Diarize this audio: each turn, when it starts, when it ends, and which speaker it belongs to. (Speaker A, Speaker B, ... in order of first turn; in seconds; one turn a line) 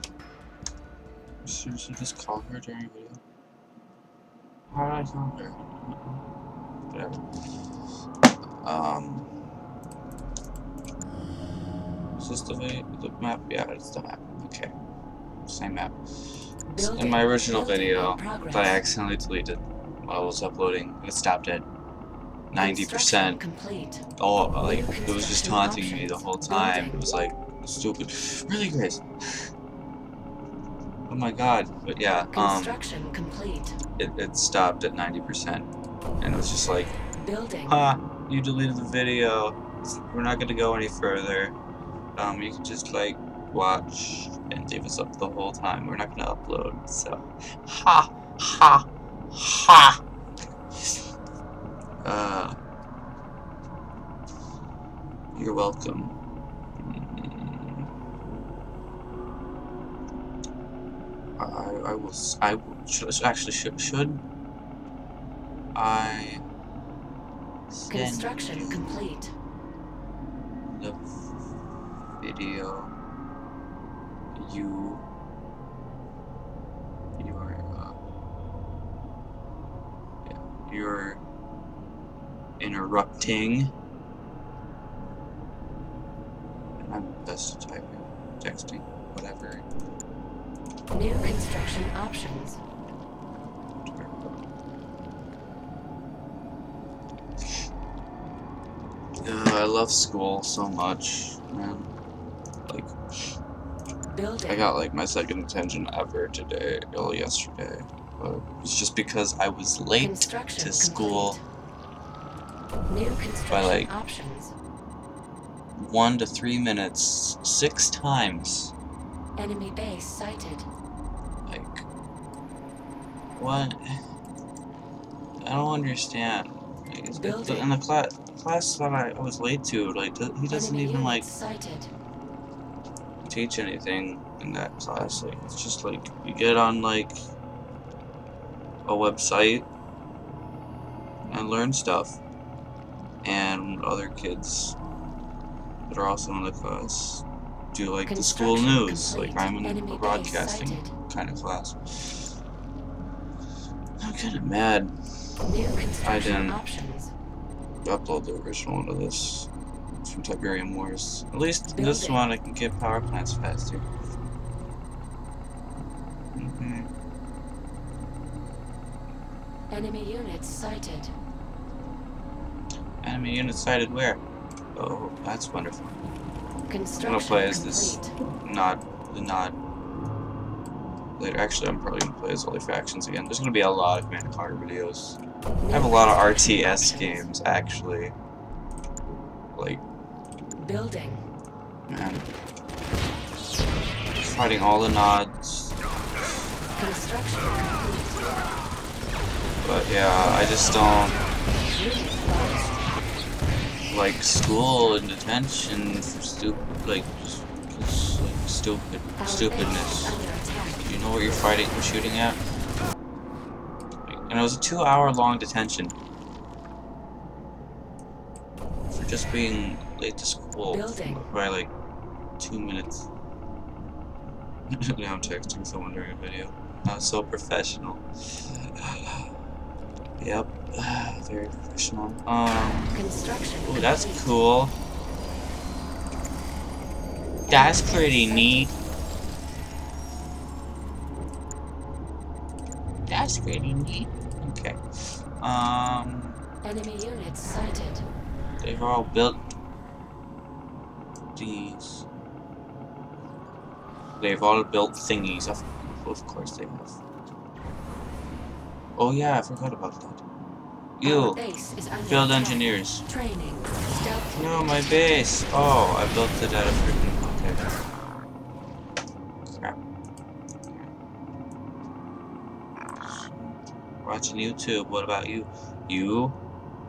Speaker A: 1.4-3.2
Speaker A: 4.7-6.2
Speaker A: 6.9-7.2
Speaker A: 8.6-9.3
Speaker A: 12.2-14.7
Speaker A: 15.4-21.6
Speaker B: 16.7-18.8
Speaker A: 22.5-23.4
Speaker B: 22.6-24.1
Speaker A: 24.2-29.5
Speaker B: 24.6-27.0
Speaker A: 31.1-32.8
Speaker B: 32.3-33.8
Speaker A: 34.0-35.7
Speaker A: 36.2-36.9
Speaker B: 37.2-37.8
Speaker A: 37.7-41.5
Speaker A: 42.1-50.0
Speaker A: 52.0-52.6
Speaker A: 55.3-56.2
Speaker A: 56.8-57.9
Speaker A: 61.4-64.2
Speaker A: 65.7-66.5
Speaker A: 67.7-69.0
Speaker B: 67.9-69.3
Speaker A: 70.7-71.2
Speaker A: 72.2-72.9
Speaker A: 74.3-75.0
Speaker A: 77.2-78.0
Speaker A: 80.2-81.2
Speaker A: 82.6-83.7
Speaker A: 86.8-89.7
Speaker B: 90.9-92.6
Speaker A: 93.8-94.4
Speaker A: 99.2-101.9
Speaker A: 102.7-102.9
Speaker B: 104.1-104.7
Speaker A: 104.5-111.4
Speaker B: 110.0-111.4
Speaker B: 112.9-114.5
Speaker A: 113.5-113.9
Speaker A: 115.8-118.7
Speaker B: 119.3-120.7
Speaker A: 121.5-121.8
Speaker A: 123.4-123.8
Speaker A: 125.4-131.3
Speaker B: 127.2-127.7
Speaker B: 130.5-131.9
Speaker A: 133.3-137.2
Speaker A: 138.8-139.7
Speaker A: 141.3-142.2
Speaker A: 143.2-144.8
Speaker A: 145.9-152.3
Speaker B: 148.1-150.9
Speaker A: 154.0-154.9
Speaker B: 155.4-157.1
Speaker A: 156.0-156.6
Speaker A: 157.8-159.5
Speaker A: 160.0-163.9
Speaker B: 161.7-162.2
Speaker A: 166.3-166.9
Speaker B: 169.7-171.1
Speaker A: 173.0-174.2
Speaker A: 174.7-176.0
Speaker B: 176.7-178.1
Speaker A: 177.0-179.6
Speaker A: 181.2-185.2
Speaker B: 185.6-187.3
Speaker A: 185.7-188.1
Speaker A: 189.5-189.8
Speaker B: 190.6-191.2
Speaker A: 191.9-192.3
Speaker A: 194.2-195.8
Speaker B: 196.8-198.2
Speaker A: 199.6-201.2
Speaker B: 201.6-202.8
Speaker A: 203.9-210.2
Speaker B: 209.2-210.9
Speaker A: 210.8-212.4
Speaker A: 214.1-215.9
Speaker A: 218.9-221.7
Speaker B: 220.7-221.2
Speaker A: 222.4-223.1
Speaker A: 224.7-229.3
Speaker A: 230.2-233.1
Speaker B: 232.9-234.4
Speaker A: 233.6-234.8
Speaker A: 237.5-238.7
Speaker B: 237.5-238.7
Speaker A: 243.1-244.8
Speaker A: 245.4-246.4
Speaker B: 246.6-248.1
Speaker A: 248.6-249.4
Speaker A: 251.3-252.1
Speaker A: 254.2-257.0
Speaker A: 258.9-260.2
Speaker A: 261.0-261.4
Speaker B: 261.0-265.2
Speaker A: 262.1-263.0
Speaker A: 264.3-267.7
Speaker A: 269.4-269.8
Speaker A: 273.0-276.4